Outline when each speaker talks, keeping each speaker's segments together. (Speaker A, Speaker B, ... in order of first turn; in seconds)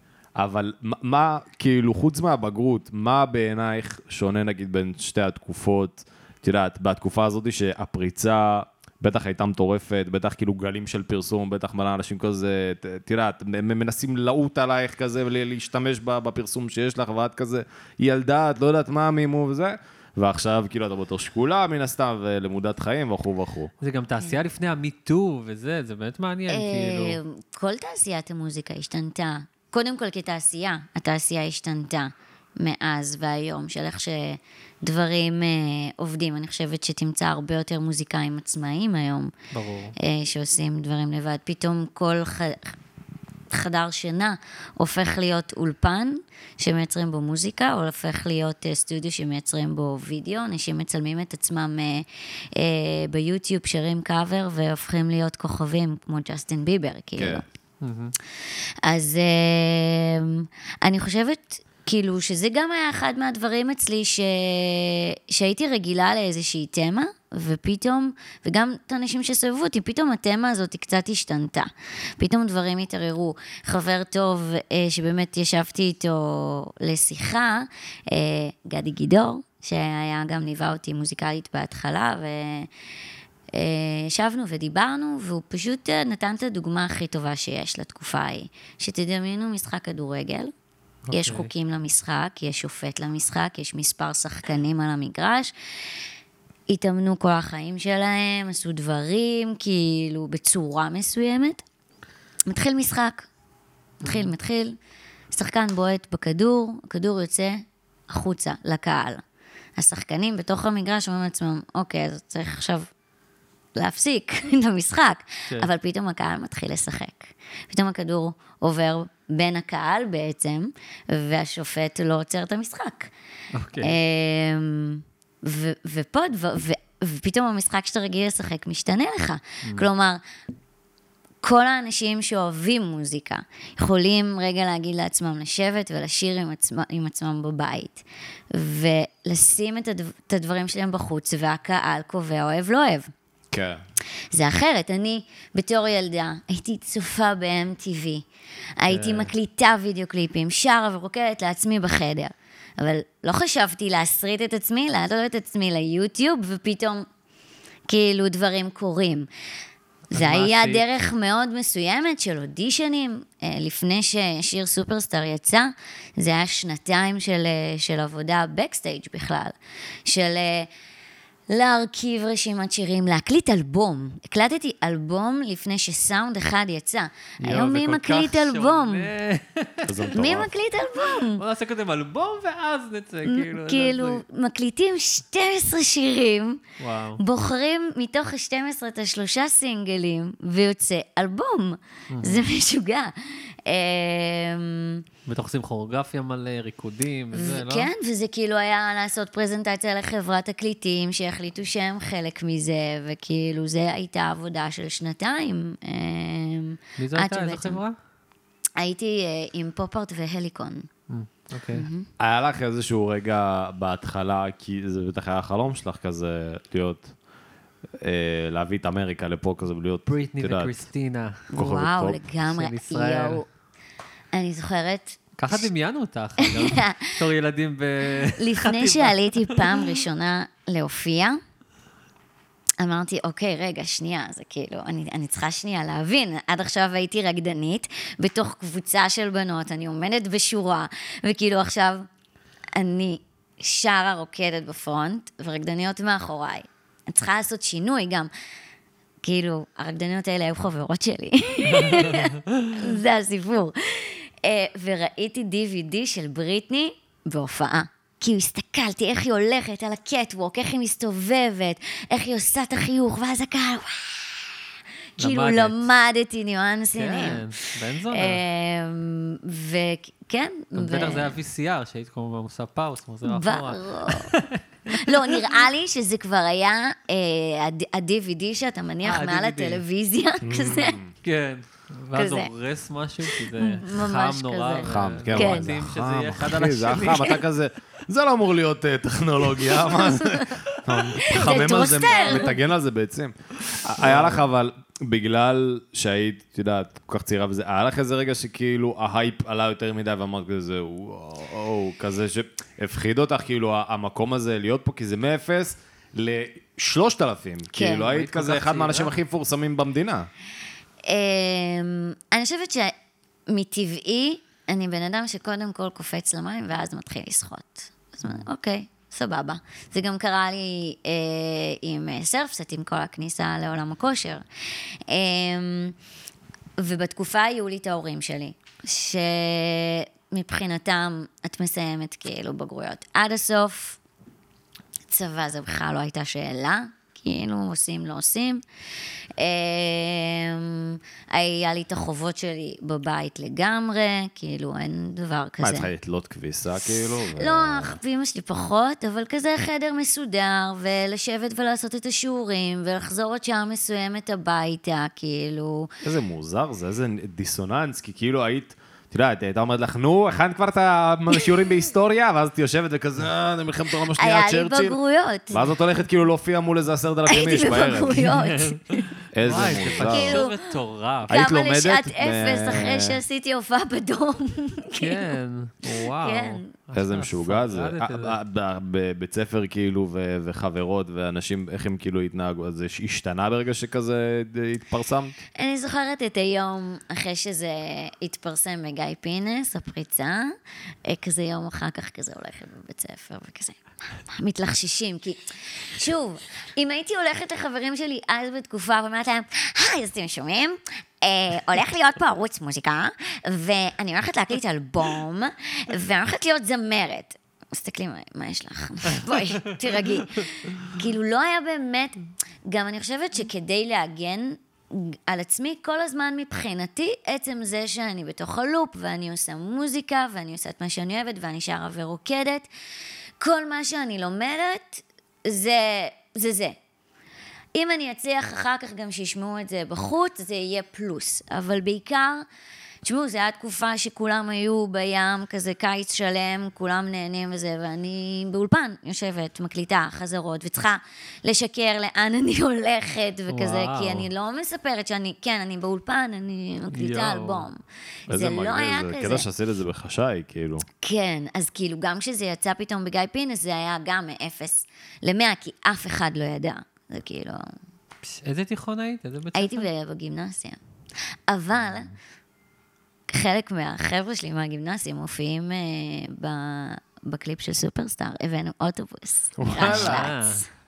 Speaker A: 0.3-23.7, 57.2-57.4, 143.5-143.8, 179.8-180.5, 212.2-217.1, 218.0-220.7, 221.5-222.2, 280.4-281.1, 284.8-310.3, 345.6-348.0, 356.0-365.0, 365.5-368.3, 369.3-370.4, 371.3-373.2, 376.9-385.4, 448.3-450.8, 469.6-470.3
Speaker B: 23.8-27.2, 39.5-39.9, 57.8-58.1, 91.1-91.5, 104.0-104.3, 123.5-124.0, 148.9-149.3, 160.1-160.8, 177.4-180.1, 181.2-184.2, 186.8-187.2, 192.1-192.4, 195.3-197.9, 207.0-207.9, 211.1-211.8, 220.1-221.4, 222.4-223.4, 225.4-230.0, 251.8-252.7, 265.2-265.9, 266.9-268.4, 270.8-275.5, 279.0-279.8, 281.2-287.4, 291.7-292.4, 294.0-294.4, 308.0-309.1, 368.3-371.3, 375.0-378.4, 443.5-444.3, 446.9-447.7, 458.2-459.9, 469.8-470.6
Speaker C: 26.5-39.3, 40.0-42.7, 43.5-57.4, 58.8-82.7, 83.5-90.5, 91.1-95.5, 96.7-101.6, 102.5-103.3, 104.0-104.8, 105.3-109.2, 109.8-112.9, 113.8-123.1, 123.8-130.2, 131.4-143.1, 144.3-148.2, 148.8-157.1, 157.9-159.3, 160.1-170.7, 171.5-179.1, 180.1-181.4, 183.3-186.6, 187.2-195.0, 197.3-207.8, 208.8-210.9, 211.7-212.1, 221.5-223.4, 224.3-225.6, 226.4-227.1, 228.3-231.4, 232.8-242.1, 242.7-248.3, 249.2-264.6, 265.2-271.4, 273.2-274.3, 274.9-281.0, 282.1-282.5, 283.3-285.7, 289.8-290.6, 291.1-292.6, 307.7-308.1, 311.0-312.9, 313.5-324.4, 325.1-325.9, 326.8-334.0, 335.1-338.6, 339.4-345.9, 346.9-355.9, 364.1-365.6, 367.3-369.1, 369.9-370.6, 371.3-375.3, 375.9-376.7, 385.6-390.5, 391.0-395.4, 395.9-422.7, 423.4-426.8, 427.7-432.4, 433.0-449.5, 451.0-457.6, 459.5-460.8, 461.5-462.1, 463.3-470.6